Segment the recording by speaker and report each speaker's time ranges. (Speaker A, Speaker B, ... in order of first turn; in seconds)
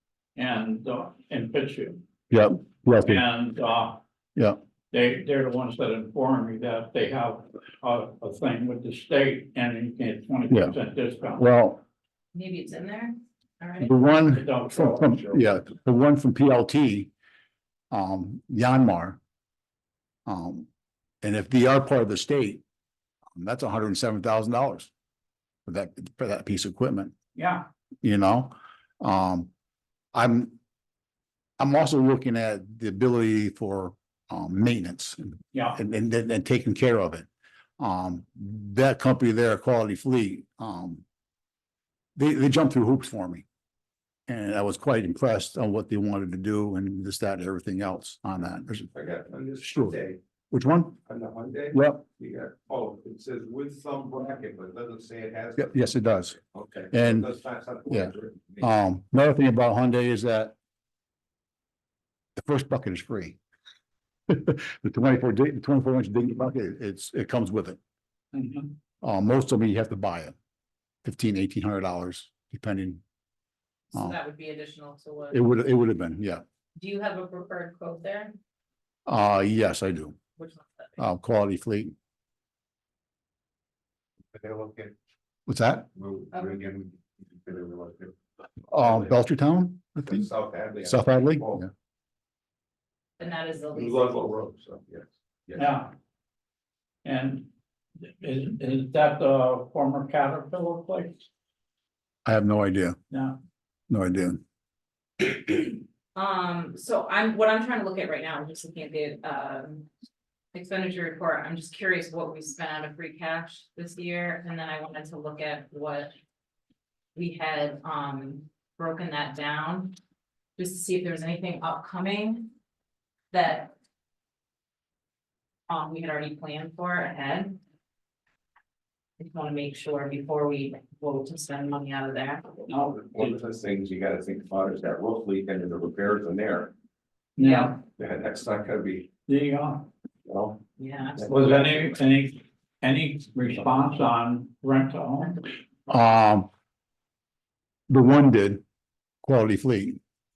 Speaker A: 0.3-2.0, 3.0-4.0, 4.9-11.4, 14.3-15.4, 27.3-27.7, 68.3-68.7, 95.5-95.9, 97.0-97.5, 98.0-101.2, 103.1-103.4, 132.7-133.3, 137.4-137.8, 139.3-139.9, 141.2-145.4
Speaker B: 2.3-3.2, 10.5-10.8, 11.3-11.8, 13.8-17.1, 17.9-19.2, 20.2-20.7, 21.2-22.6, 23.3-24.9, 25.6-27.1, 28.0-29.5, 30.1-30.6, 31.6-37.3, 37.8-41.0, 42.1-43.5, 44.3-48.9, 49.6-50.0, 50.5-51.0, 51.7-52.0, 55.6-56.4, 56.9-57.3, 57.9-60.5, 62.4-63.4, 64.3-67.8, 69.0-70.3, 71.0-73.0, 75.3-76.4, 79.1-80.2, 81.0-81.9, 85.5-85.9, 88.7-90.2, 90.8-91.7, 102.2-103.0, 103.9-104.4, 145.9-146.5, 147.9-148.6, 149.2-150.0
Speaker C: 12.3-13.9, 73.9-75.4, 76.8-78.3, 80.4-81.0, 86.3-86.6, 93.2-94.3, 105.5-109.9, 110.5-116.1, 117.1-120.0, 120.6-122.5, 123.3-123.7, 125.7-127.6, 129.2-132.5, 137.4-137.8, 140.8-141.9
Speaker D: 48.9-50.2, 51.0-55.8, 56.4-58.6, 84.3-84.9, 85.9-88.2, 88.8-89.1, 90.0-91.6, 93.7-95.7, 132.7-136.7, 137.9-139.1, 140.2-140.6